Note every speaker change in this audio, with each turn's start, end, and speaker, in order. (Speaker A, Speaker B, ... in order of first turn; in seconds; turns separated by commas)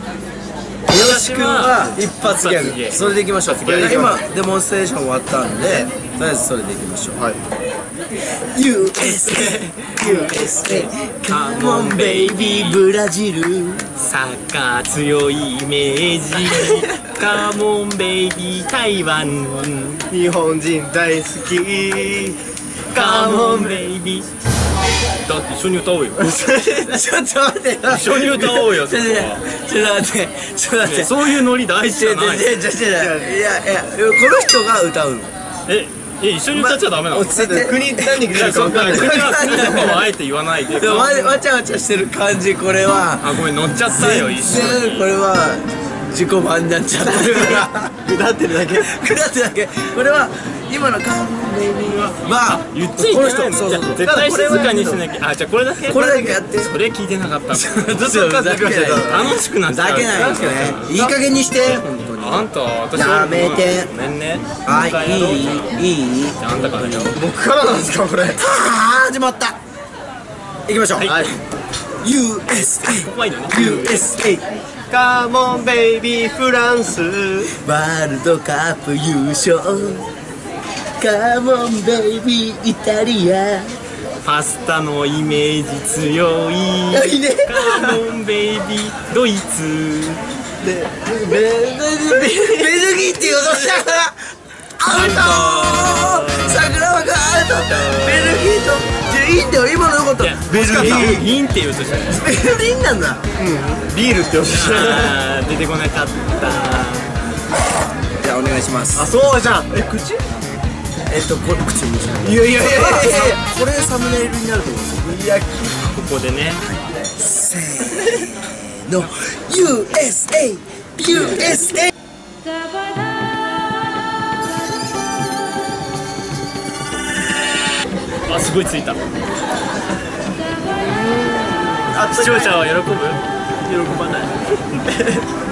Speaker A: 0.9-7.2, Speaker B: 0.9-4.1, Speaker C: 3.6-4.2, Speaker C: 5.6-5.9, Speaker A: 8.4-13.9, Speaker B: 9.0-9.9, Speaker C: 10.0-10.9, Speaker B: 11.3-12.8, Speaker B: 14.0-20.0, Speaker C: 20.1-22.4, Speaker C: 22.9-23.9, Speaker B: 22.9-24.3, Speaker B: 25.2-26.3, Speaker C: 26.2-26.9, Speaker A: 26.7-35.3, Speaker B: 27.9-29.4, Speaker B: 30.8-32.5, Speaker C: 32.9-33.4, Speaker B: 35.7-37.3, Speaker C: 36.6-40.0, Speaker A: 37.0-40.0, Speaker B: 38.3-41.4, Speaker A: 40.7-47.9, Speaker B: 43.2-45.1, Speaker C: 47.0-48.9, Speaker A: 48.7-54.1, Speaker B: 51.9-58.1, Speaker C: 53.8-55.0, Speaker A: 55.8-56.7, Speaker C: 55.9-56.5, Speaker A: 57.5-63.9, Speaker C: 57.9-59.4, Speaker B: 58.7-61.1, Speaker B: 62.2-65.8, Speaker A: 64.7-67.1, Speaker B: 66.4-67.2, Speaker C: 67.1-68.4, Speaker A: 68.4-69.6, Speaker A: 70.7-71.2, Speaker B: 71.0-71.3, Speaker C: 71.1-71.3, Speaker A: 72.0-74.5, Speaker B: 72.7-74.1, Speaker C: 74.9-77.5, Speaker A: 77.5-80.1, Speaker A: 81.0-83.8, Speaker B: 84.2-90.2, Speaker A: 86.9-88.0, Speaker C: 90.6-94.0, Speaker A: 90.9-94.2, Speaker A: 94.8-101.2, Speaker B: 94.9-96.6, Speaker C: 94.9-95.3, Speaker B: 97.7-98.5, Speaker B: 100.2-102.2, Speaker C: 100.5-101.2, Speaker A: 102.1-103.2, Speaker C: 103.3-105.2, Speaker B: 104.4-107.1, Speaker A: 108.2-109.1, Speaker C: 109.0-110.2, Speaker A: 111.1-115.5, Speaker C: 112.2-113.4, Speaker B: 115.7-116.6, Speaker A: 117.2-121.9, Speaker B: 128.2-129.0, Speaker C: 131.0-132.6, Speaker B: 132.0-133.2, Speaker C: 133.6-135.2